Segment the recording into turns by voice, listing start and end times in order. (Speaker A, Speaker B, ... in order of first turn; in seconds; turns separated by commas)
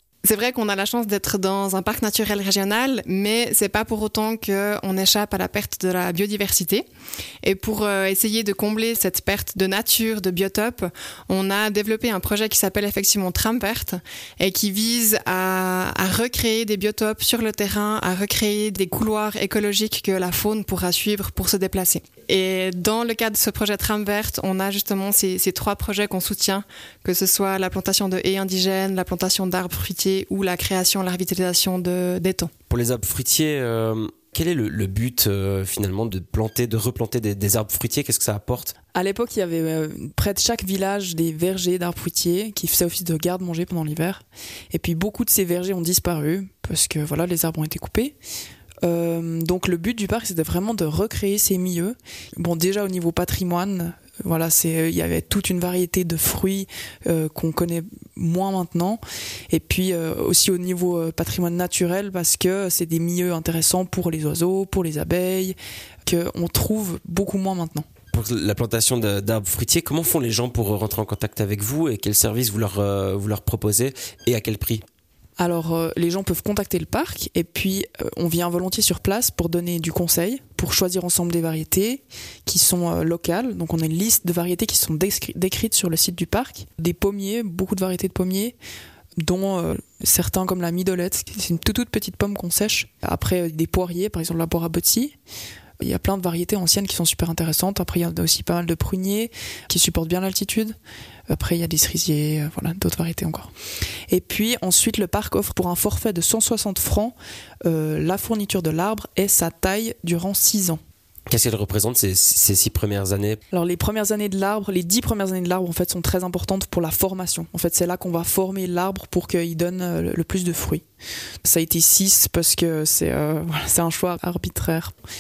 Speaker A: 0.2-6.8, Speaker A: 7.4-32.5, Speaker B: 32.7-38.7, Speaker C: 38.9-48.1, Speaker C: 48.8-67.8, Speaker B: 68.1-74.8, Speaker C: 75.4-88.5, Speaker C: 89.2-95.1, Speaker C: 95.8-100.8, Speaker C: 101.3-103.5, Speaker C: 104.1-110.8, Speaker B: 111.3-113.4, Speaker C: 113.5-120.8, Speaker C: 121.4-124.9